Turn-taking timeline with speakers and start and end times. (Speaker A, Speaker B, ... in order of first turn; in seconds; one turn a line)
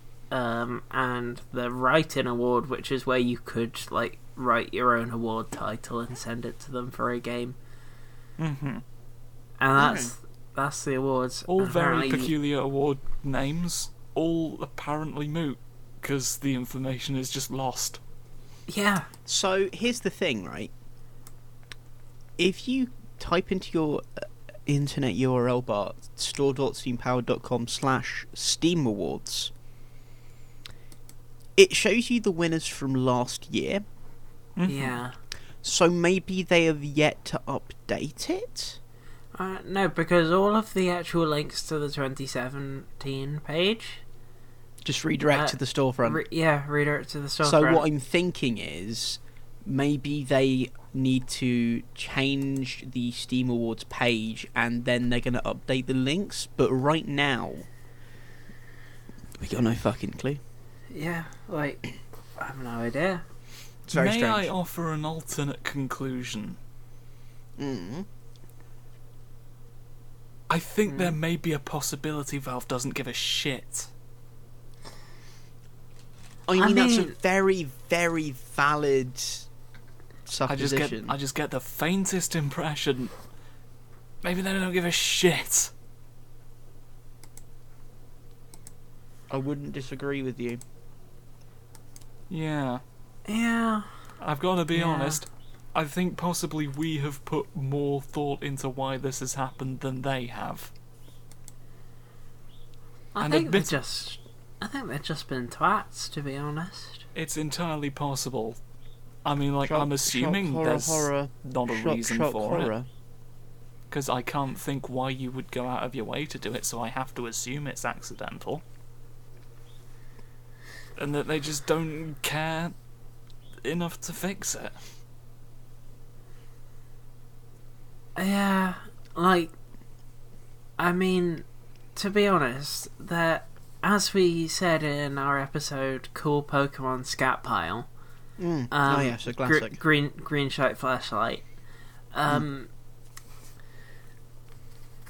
Speaker A: 0.3-7.5
Speaker B: 8.4-8.8
Speaker A: 9.6-12.3
Speaker C: 9.8-10.1
Speaker B: 11.5-18.0
Speaker A: 18.7-19.1
Speaker C: 19.2-20.7
Speaker C: 22.4-29.5
Speaker C: 31.6-33.8
Speaker B: 34.6-34.9
Speaker A: 34.6-35.1
Speaker C: 35.6-38.8
Speaker A: 39.3-44.0
Speaker C: 44.8-46.2
Speaker A: 45.3-47.8
Speaker C: 47.4-57.7
Speaker C: 59.4-60.4
Speaker A: 60.9-61.8
Speaker A: 62.4-63.2
Speaker C: 63.9-64.5
Speaker B: 63.9-66.6
Speaker C: 67.6-68.0
Speaker B: 70.5-73.9
Speaker C: 76.5-79.5
Speaker A: 76.5-77.2
Speaker C: 80.2-81.1
Speaker B: 80.5-83.1
Speaker B: 84.2-85.7
Speaker C: 89.3-90.6
Speaker B: 92.3-92.8
Speaker A: 93.3-93.9
Speaker B: 94.2-100.7
Speaker A: 94.7-95.2
Speaker A: 103.1-107.0
Speaker B: 103.2-103.7
Speaker B: 107.1-108.6
Speaker B: 109.2-112.7
Speaker C: 109.6-112.9
Speaker B: 113.9-118.6
Speaker B: 121.0-122.7
Speaker B: 123.6-124.8
Speaker A: 128.2-129.5
Speaker A: 130.8-131.4
Speaker A: 131.9-137.9
Speaker C: 138.4-139.8
Speaker A: 138.7-141.4
Speaker A: 142.1-142.7